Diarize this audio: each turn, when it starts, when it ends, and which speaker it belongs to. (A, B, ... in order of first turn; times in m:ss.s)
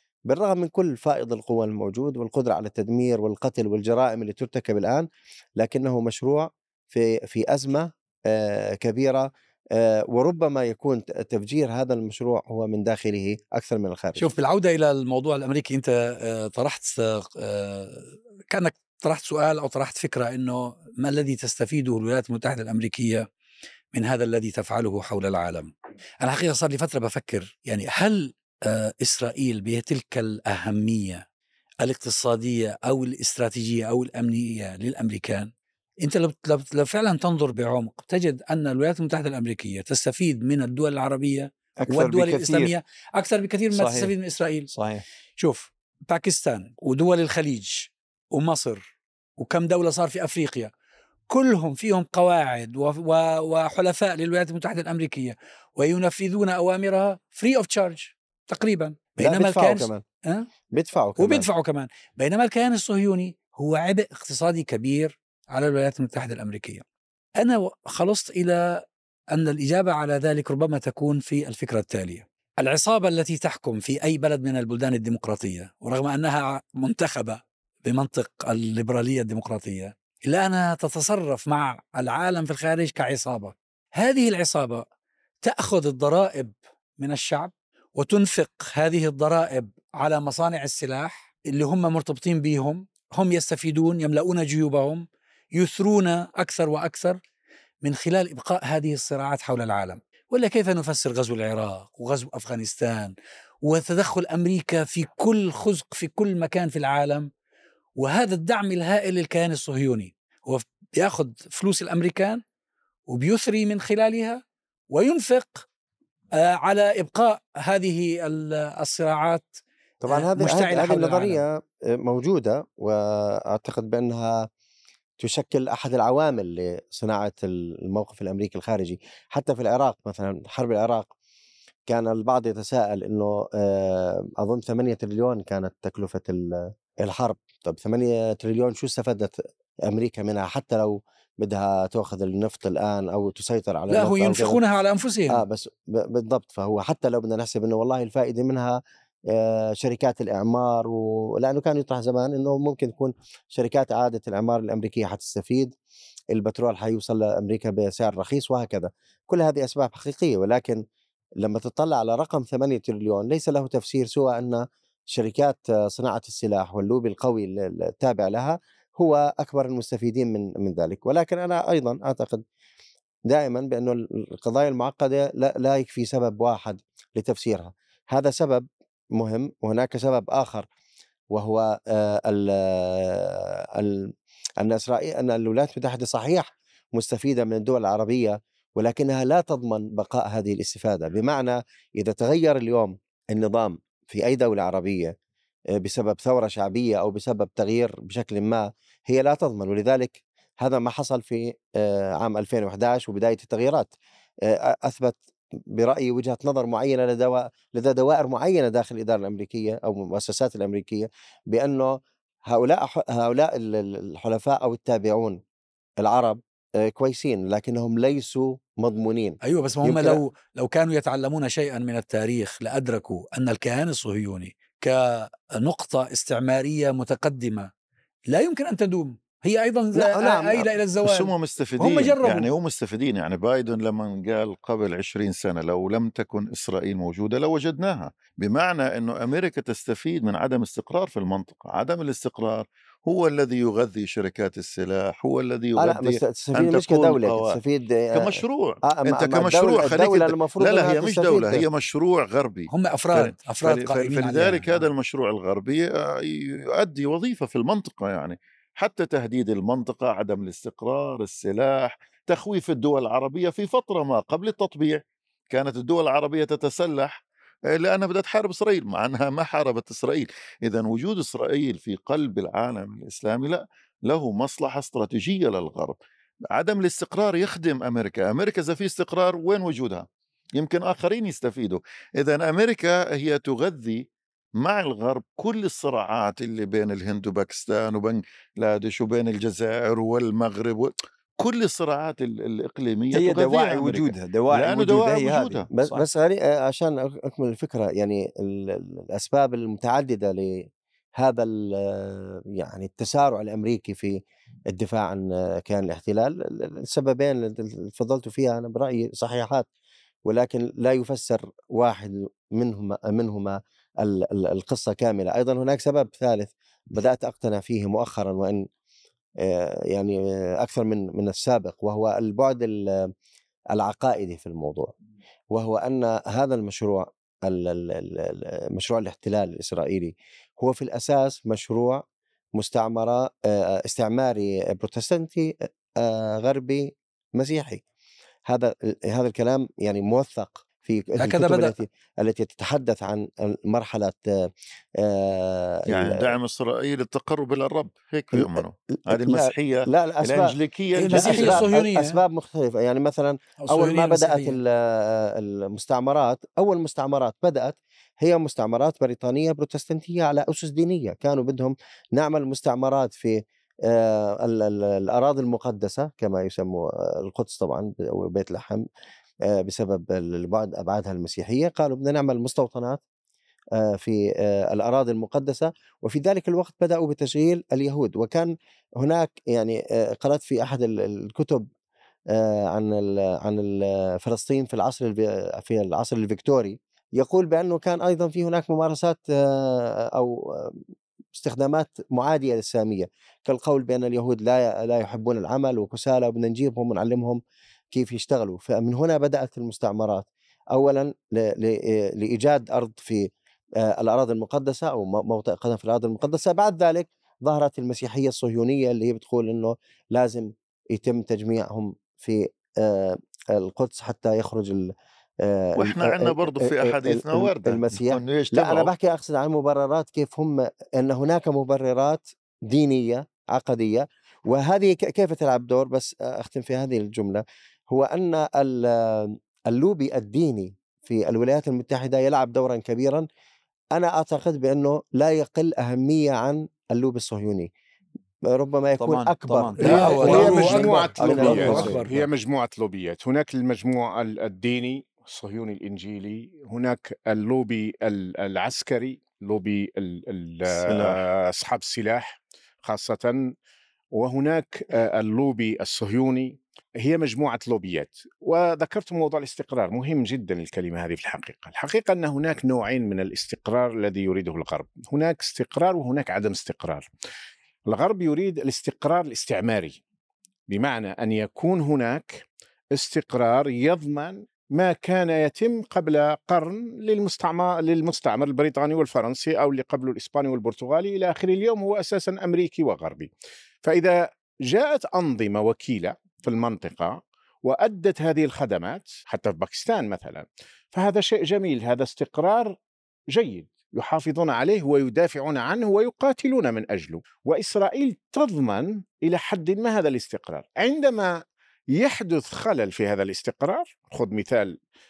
0:00.3-0:14.3 A
0:14.2-0:23.3 B
0:23.9-0:31.2 B
0:31.8-0:44.7 B
0:41.8-0:42.7 C
0:43.7-0:44.1 C
0:44.7-0:45.0 C
0:45.4-0:50.7 B
0:51.3-1:00.5 B
0:59.2-1:00.0 A
1:00.7-1:01.5 A
1:01.2-1:06.8 B
1:07.4-1:24.9 B
1:25.4-1:37.2 B
1:37.8-1:47.3 B
1:48.0-1:52.4 B
1:53.1-1:55.7 B
1:56.4-2:01.4 B
2:00.0-2:04.5 A
2:05.2-2:11.1 A
2:11.9-2:24.6 A
2:23.9-2:25.4 B
2:25.3-2:35.7 A
2:36.3-2:40.8 A
2:41.4-2:52.4 A
2:53.3-3:00.7 A
3:01.3-3:15.1 A
3:15.7-3:35.4 A
3:36.0-3:40.2 A
3:39.4-3:47.7 B
3:48.3-3:52.5 B
3:49.9-3:50.7 A
3:51.0-4:07.6 D
4:05.8-4:11.6 A
4:08.1-4:36.0 D
4:12.7-4:14.8 B
4:36.5-4:40.1 D
4:40.6-4:44.1 D
4:44.6-4:55.7 D
4:53.1-4:56.0 C
4:55.7-5:09.7 A
5:10.2-5:18.6 A
5:19.4-5:23.1 A
5:23.7-5:24.9 A
5:25.5-5:32.0 A
5:32.5-5:37.8 A
5:38.5-5:46.4 A
5:41.2-5:41.8 B
5:45.9-5:51.7 D
5:48.3-5:50.5 A
5:50.9-5:52.2 B
5:51.1-6:08.8 A
5:53.6-5:54.6 B
6:09.4-6:13.0 A
6:13.7-6:21.7 A
6:22.3-6:30.8 A
6:31.3-6:37.4 A
6:37.9-7:13.2 A
6:55.8-6:58.9 D
7:13.9-7:17.7 A
7:18.5-7:22.0 A
7:19.0-7:22.1 C
7:19.8-7:22.2 B
7:19.8-7:20.4 D
7:20.0-7:33.5 E
7:30.7-7:31.2 D
7:34.2-7:47.1 E
7:47.9-7:50.0 E
7:50.7-7:52.4 E
7:52.9-8:03.3 E
8:03.8-8:12.8 E
8:13.3-8:21.4 E
8:21.9-8:24.8 E